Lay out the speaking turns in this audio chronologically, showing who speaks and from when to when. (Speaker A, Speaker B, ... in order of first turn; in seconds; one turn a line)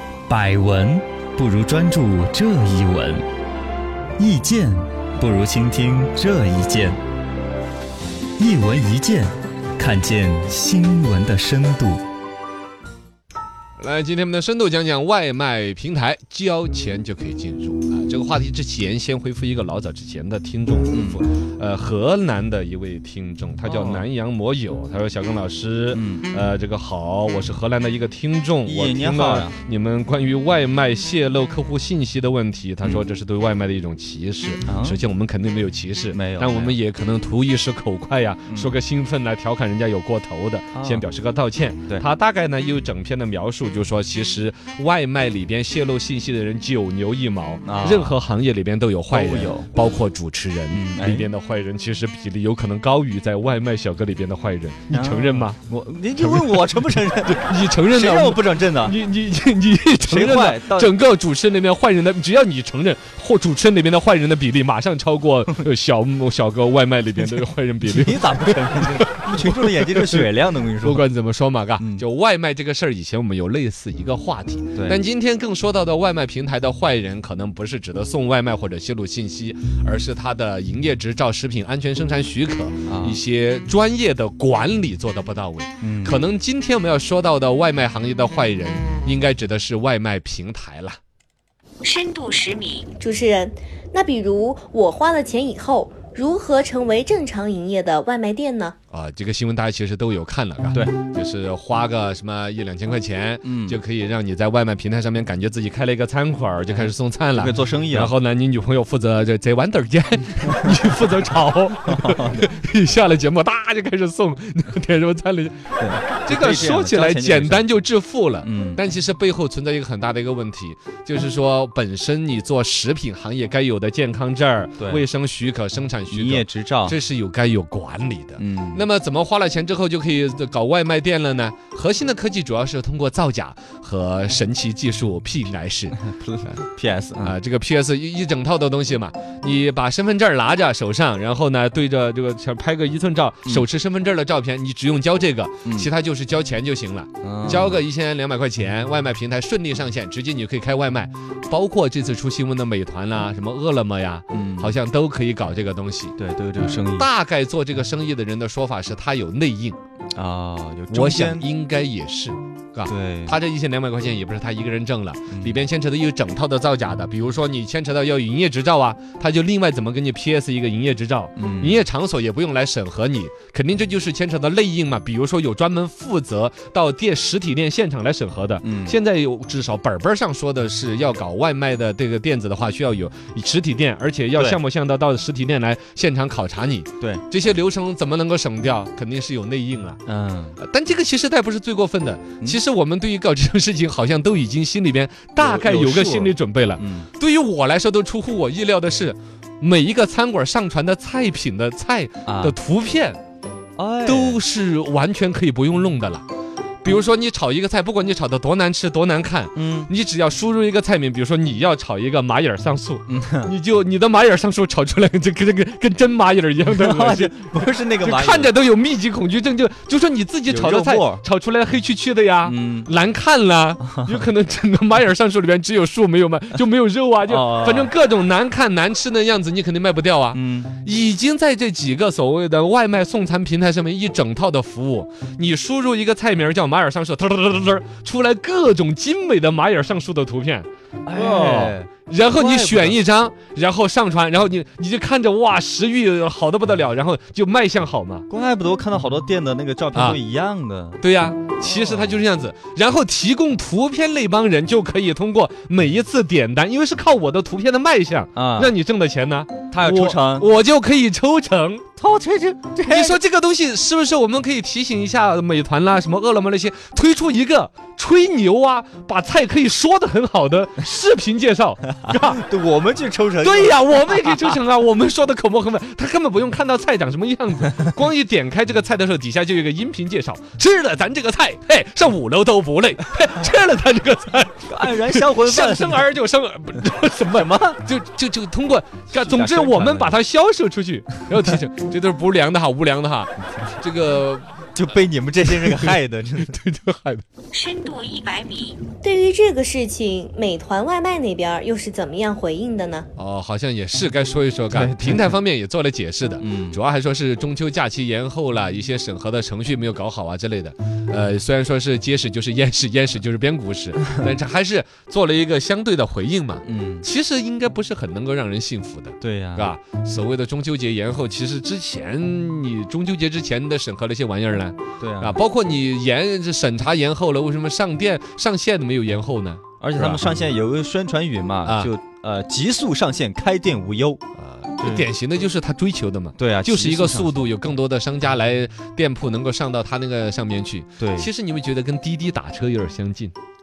Speaker A: 0.3-3.2
Speaker A: 4.2-7.0
Speaker A: 8.4-12.0
Speaker B: 13.8-55.6
Speaker A: 20.9-21.2
Speaker A: 23.6-24.1
Speaker A: 25.9-26.3
Speaker A: 28.6-29.6
Speaker A: 34.6-35.0
Speaker A: 36.1-36.8
Speaker A: 40.7-41.0
Speaker A: 47.6-48.2
Speaker A: 49.1-49.7
Speaker A: 50.7-51.3
Speaker A: 54.9-59.0
Speaker B: 56.2-70.3
Speaker A: 60.0-61.0
Speaker A: 67.8-71.0
Speaker B: 70.8-91.0
Speaker A: 71.8-72.0
Speaker A: 74.7-75.0
Speaker A: 82.9-83.2
Speaker A: 85.8-86.2
Speaker C: 91.8-92.9
Speaker D: 93.0-98.7
Speaker B: 98.9-136.6
Speaker A: 103.4-103.8
Speaker A: 106.7-108.1
Speaker A: 111.8-112.5
Speaker A: 115.8-117.7
Speaker A: 118.4-118.8
Speaker A: 124.8-125.0
Speaker A: 126.1-127.0
Speaker A: 128.4-128.8
Speaker A: 136.0-137.3
Speaker B: 137.2-156.2
Speaker A: 147.2-147.8
Speaker A: 154.3-154.7
Speaker A: 156.2-157.1
Speaker B: 156.9-159.8
Speaker A: 160.1-161.5
Speaker B: 160.9-190.0
Speaker A: 162.9-163.4
Speaker A: 165.3-165.6
Speaker A: 171.4-171.8
Speaker A: 178.6-178.9
Speaker A: 190.1-190.6
Speaker B: 190.6-203.2
Speaker A: 195.4-197.1
Speaker A: 202.2-202.5
Speaker A: 203.8-204.4
Speaker B: 204.0-206.2
Speaker B: 206.8-217.5
Speaker A: 209.5-209.9
Speaker A: 213.1-213.5
Speaker A: 216.7-218.5
Speaker B: 218.0-248.2
Speaker A: 220.5-221.2
Speaker A: 222.4-222.9
Speaker A: 224.0-224.2
Speaker A: 227.2-227.9
Speaker A: 230.3-230.7
Speaker A: 241.1-243.0
Speaker A: 248.3-251.0
Speaker B: 251.0-261.9
Speaker A: 251.6-252.2
Speaker A: 258.4-258.7
Speaker A: 259.7-260.5
Speaker A: 262.0-263.2
Speaker B: 262.8-272.4
Speaker A: 272.1-274.5
Speaker B: 273.4-294.6
Speaker A: 284.6-286.1
Speaker A: 287.3-287.8
Speaker A: 289.1-290.1
Speaker A: 294.7-296.6
Speaker B: 295.5-297.2
Speaker C: 297.5-298.8
Speaker D: 298.9-303.1
Speaker B: 303.1-330.4
Speaker A: 304.7-305.3
Speaker A: 306.4-306.8
Speaker A: 316.6-317.1
Speaker A: 319.2-319.7
Speaker A: 325.0-325.4
Speaker A: 329.8-334.2
Speaker B: 331.6-331.9
Speaker B: 334.4-343.3
Speaker A: 334.8-335.1
Speaker A: 336.4-337.4
Speaker A: 341.0-341.3